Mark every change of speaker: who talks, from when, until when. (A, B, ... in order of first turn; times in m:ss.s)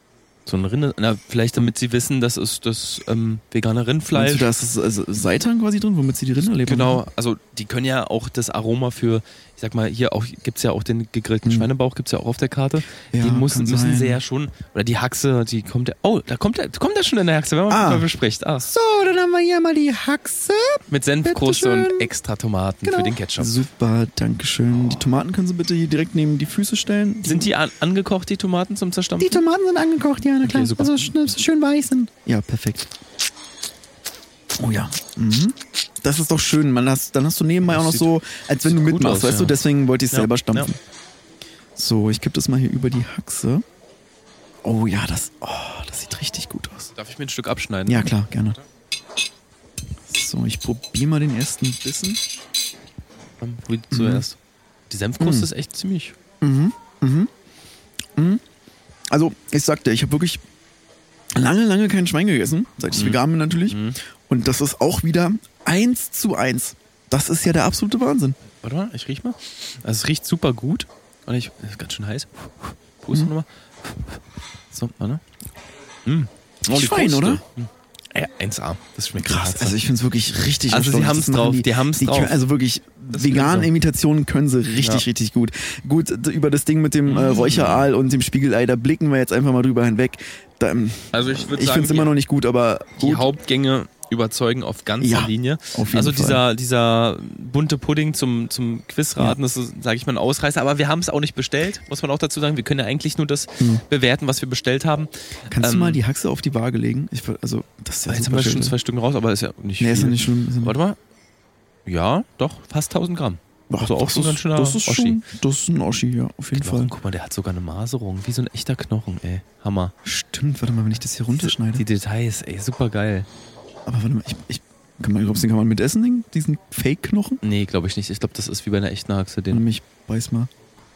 0:00.4-0:04.5 A
0:04.1-0:07.0 B
0:06.6-0:18.7 A
0:11.4-0:11.7 B
0:13.1-0:14.2 B
0:17.7-0:18.1 B
0:18.7-0:22.1 C
0:20.9-0:23.5 A
0:22.8-0:23.1 C
0:23.4-0:27.5 B
0:27.2-0:29.4 A
0:29.2-0:32.1 C
0:30.4-0:31.1 A
0:32.2-0:32.9 B
0:34.6-0:40.8 B
0:37.6-0:38.1 A
0:38.6-0:39.6 A
0:40.1-0:40.7 A
0:41.8-0:43.6 B
0:44.6-0:46.9 B
0:47.0-0:48.1 A
0:47.8-0:48.6 B
0:50.0-0:52.2 B
0:53.4-0:54.4 A
0:53.9-0:54.2 B
0:54.9-0:56.1 A
0:55.2-0:55.5 B
0:56.4-0:57.3 B
0:58.2-0:58.4 B
0:59.1-1:00.4 B
1:01.3-1:08.4 B
1:02.9-1:04.0 A
1:08.6-1:13.9 A
1:14.7-1:15.2 A
1:16.0-1:19.8 A
1:16.6-1:17.4 B
1:19.2-1:33.3 B
1:20.7-1:22.4 A
1:23.1-1:23.7 A
1:27.1-1:27.9 A
1:31.1-1:32.1 A
1:33.0-1:46.0 A
1:35.0-1:36.4 B
1:45.5-1:48.8 B
1:48.1-1:51.0 A
1:49.8-1:50.8 B
1:51.8-1:55.2 A
1:53.7-1:56.9 B
1:56.6-1:59.9 A
2:00.0-2:01.8 B
2:01.4-2:03.3 A
2:03.8-2:07.4 B
2:07.4-2:09.6 A
2:09.5-2:10.5 B